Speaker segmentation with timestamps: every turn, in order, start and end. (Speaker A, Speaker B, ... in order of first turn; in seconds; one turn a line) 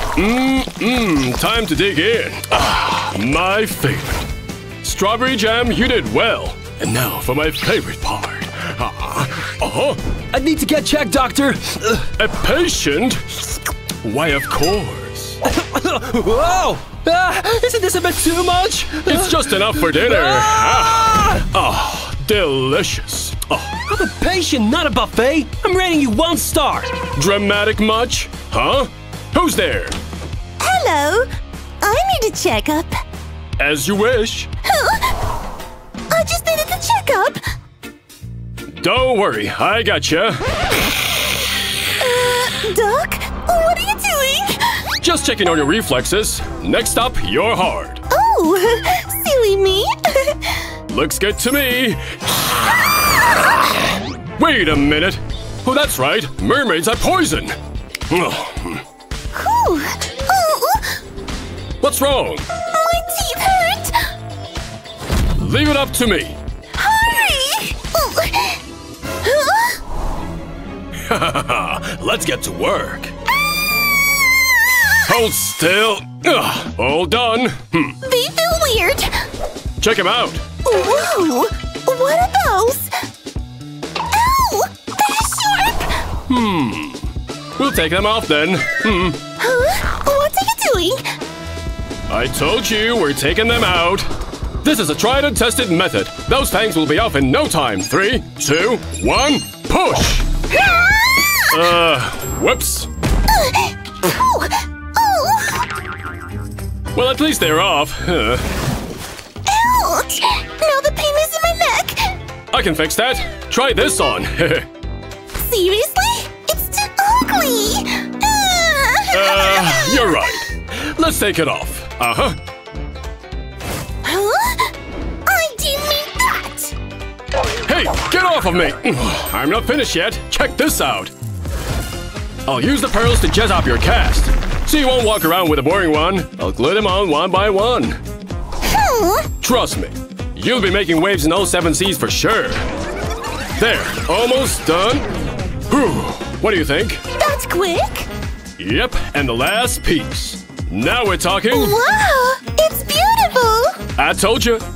Speaker A: 0.2-4.3
Speaker A: 4.8-10.0
Speaker A: 11.9-15.4
Speaker B: 16.0-16.8
Speaker A: 17.1-23.8
Speaker B: 23.9-26.9
Speaker A: 27.0-30.0
Speaker C: 30.6-31.3
Speaker C: 31.8-33.0
Speaker A: 33.6-34.5
Speaker C: 34.7-35.0
Speaker C: 36.1-37.4
Speaker A: 38.7-40.5
Speaker C: 42.0-44.8
Speaker A: 45.0-48.0
Speaker C: 48.1-50.4
Speaker A: 50.9-52.9
Speaker A: 54.4-57.6
Speaker A: 58.1-58.8
Speaker C: 59.3-61.0
Speaker A: 61.8-62.5
Speaker C: 62.7-64.0
Speaker A: 65.4-66.4
Speaker C: 66.8-68.6
Speaker C: 69.2-69.8
Speaker A: 71.0-73.1
Speaker A: 75.0-78.0
Speaker C: 78.0-79.2
Speaker A: 79.8-80.4
Speaker C: 80.7-82.9
Speaker C: 84.1-85.9
Speaker A: 86.3-89.2
Speaker C: 89.4-91.1
Speaker A: 92.1-94.1
Speaker A: 94.6-100.3
Speaker C: 100.5-101.6
Speaker A: 101.5-102.9
Speaker C: 103.4-105.6
Speaker A: 106.9-108.5
Speaker C: 109.5-112.2
Speaker A: 112.5-114.7
Speaker C: 115.4-120.2
Speaker A: 119.1-122.4
Speaker C: 124.0-124.7
Speaker C: 125.3-126.7
Speaker A: 127.6-131.1
Speaker A: 132.5-138.0
Speaker C: 138.7-139.3
Speaker A: 139.4-142.7
Speaker A: 143.6-145.1
Speaker A: 145.7-147.0
Speaker C: 147.1-148.1
Speaker A: 148.6-151.8
Speaker C: 151.5-153.8
Speaker A: 154.0-154.7